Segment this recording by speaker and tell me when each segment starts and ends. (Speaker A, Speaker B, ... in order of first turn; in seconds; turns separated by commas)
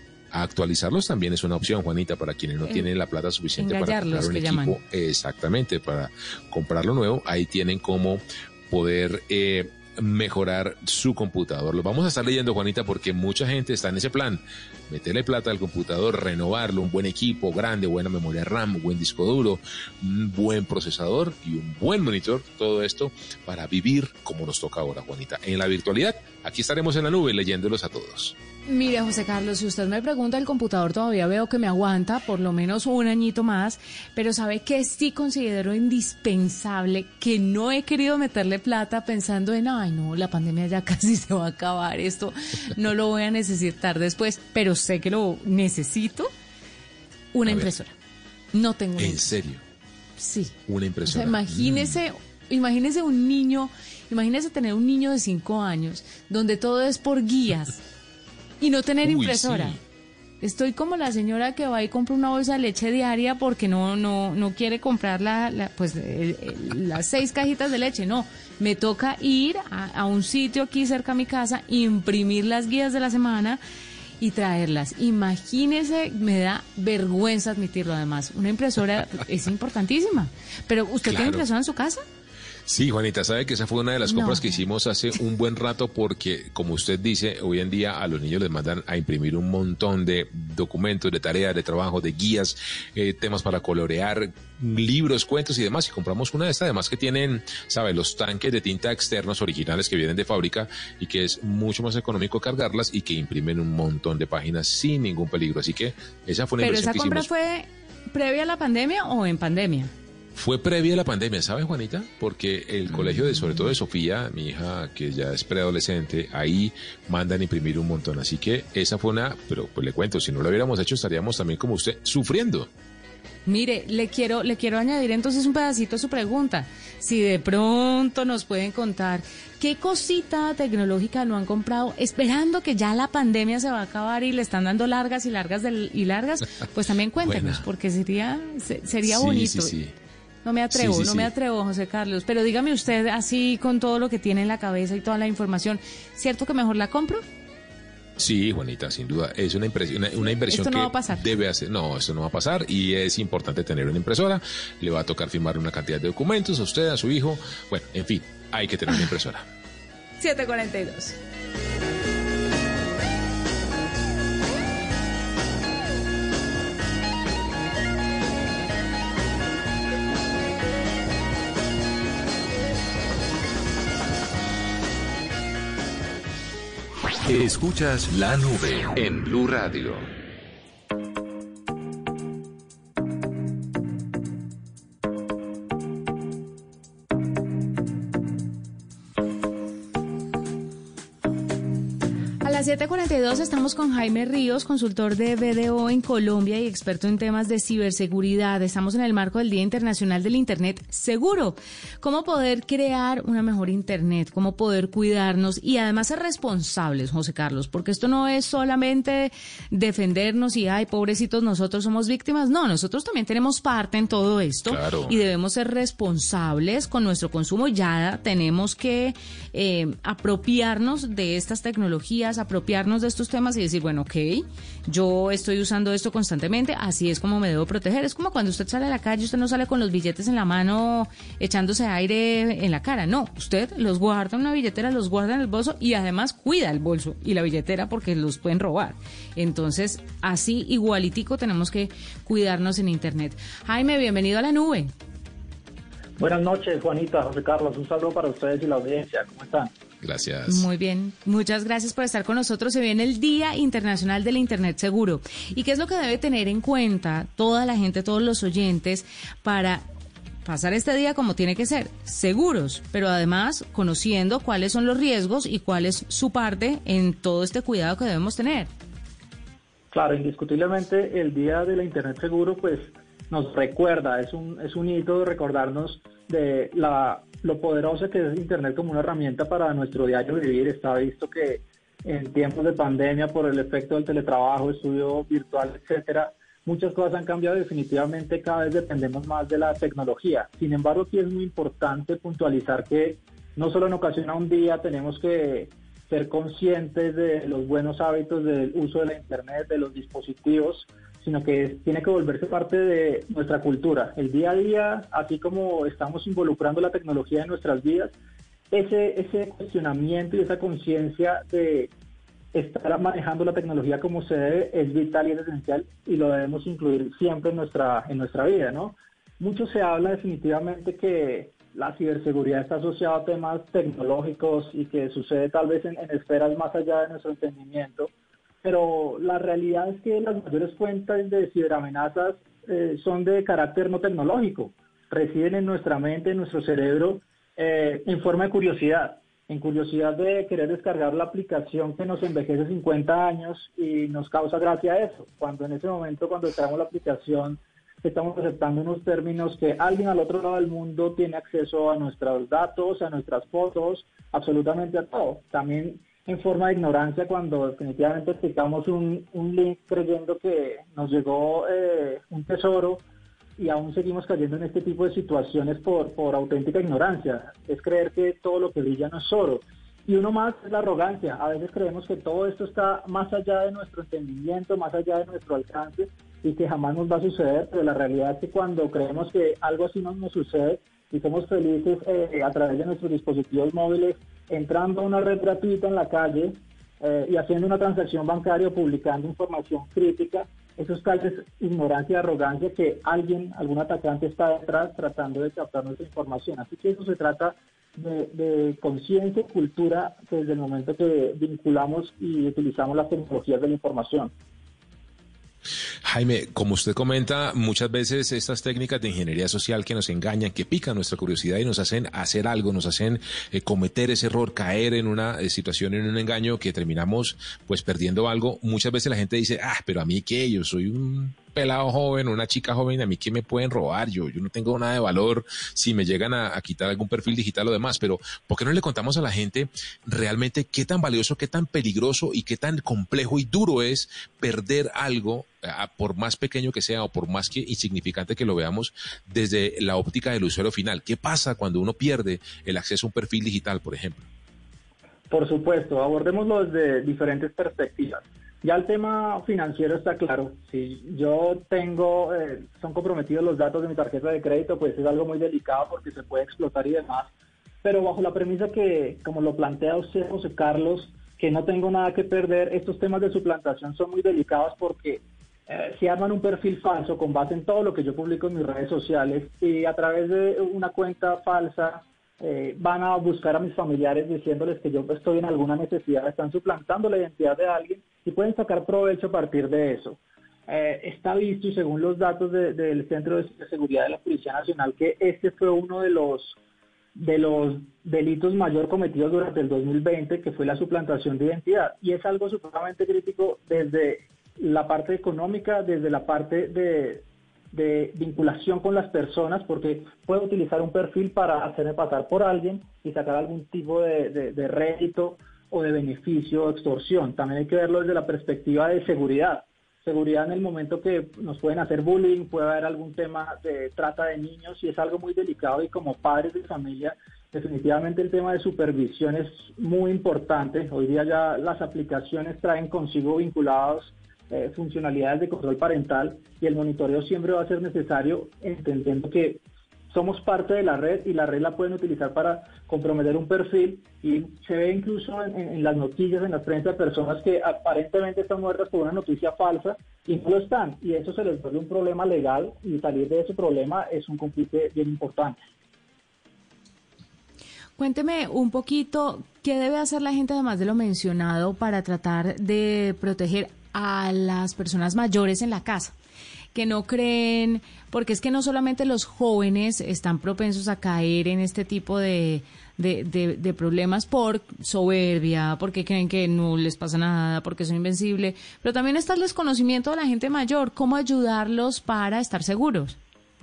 Speaker A: 0.3-28.4, Speaker B: 3.6-4.8, Speaker B: 28.7-46.3, Speaker B: 47.3-47.9, Speaker A: 47.5-47.7, Speaker B: 48.5-49.4, Speaker A: 49.0-49.6, Speaker B: 50.2-57.8, Speaker A: 50.7-52.0, Speaker B: 58.6-59.8, Speaker A: 59.0-59.8, Speaker B: 60.4-73.6, Speaker B: 74.2-82.0, Speaker A: 81.0-81.4, Speaker A: 82.7-107.3, Speaker B: 84.0-84.6, Speaker B: 106.6-109.9, Speaker A: 110.3-122.7, Speaker B: 112.9-113.3, Speaker B: 123.5-139.8, Speaker A: 137.2-137.6, Speaker A: 139.0-139.9, Speaker B: 140.4-147.2, Speaker A: 140.7-141.3, Speaker A: 148.2-159.5, Speaker B: 150.2-151.2, Speaker B: 160.2-161.2, Speaker C: 177.2-180.1, Speaker B: 192.4-244.9, Speaker A: 214.7-215.2, Speaker D: 246.2-249.7, Speaker A: 250.0-250.7, Speaker B: 250.4-259.9, Speaker B: 260.4-268.7, Speaker D: 269.9-308.1, Speaker D: 308.7-311.9, Speaker D: 312.5-328.1, Speaker D: 328.6-363.0, Speaker D: 363.6-404.3, Speaker A: 406.0-444.3, Speaker D: 445.3-457.3, Speaker D: 457.8-486.6, Speaker D: 487.1-545.6, Speaker B: 548.0-556.1, Speaker B: 556.7-573.2